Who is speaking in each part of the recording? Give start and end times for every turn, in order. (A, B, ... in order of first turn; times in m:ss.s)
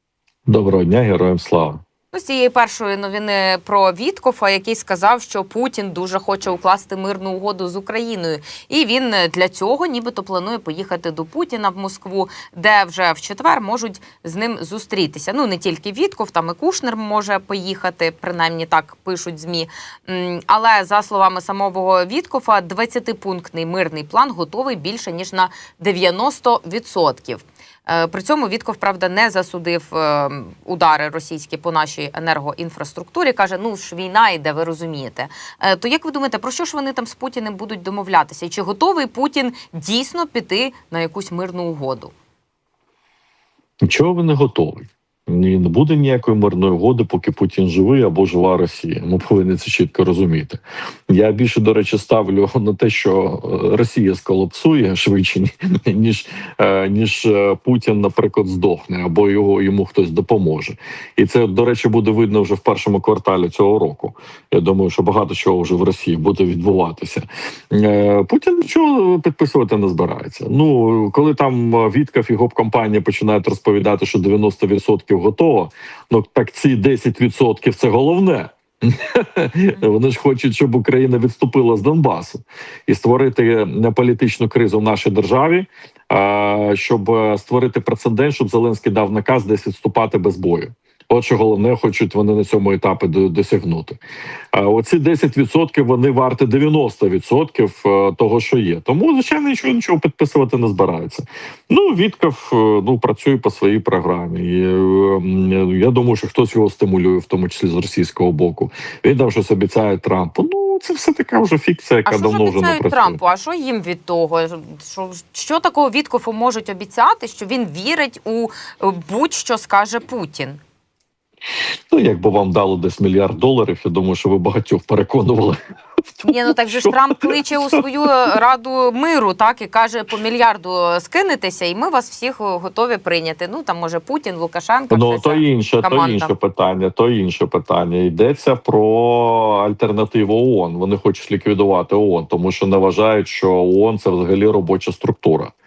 0:00.5-0:01.8 A
0:02.1-0:42.1 B
0:43.8-1:34.0 A
1:34.5-1:53.2 A
1:52.0-2:00.6 B
2:01.9-2:05.6 A
2:06.2-2:07.8 A
2:06.2-2:16.3 B
2:14.9-2:25.5 A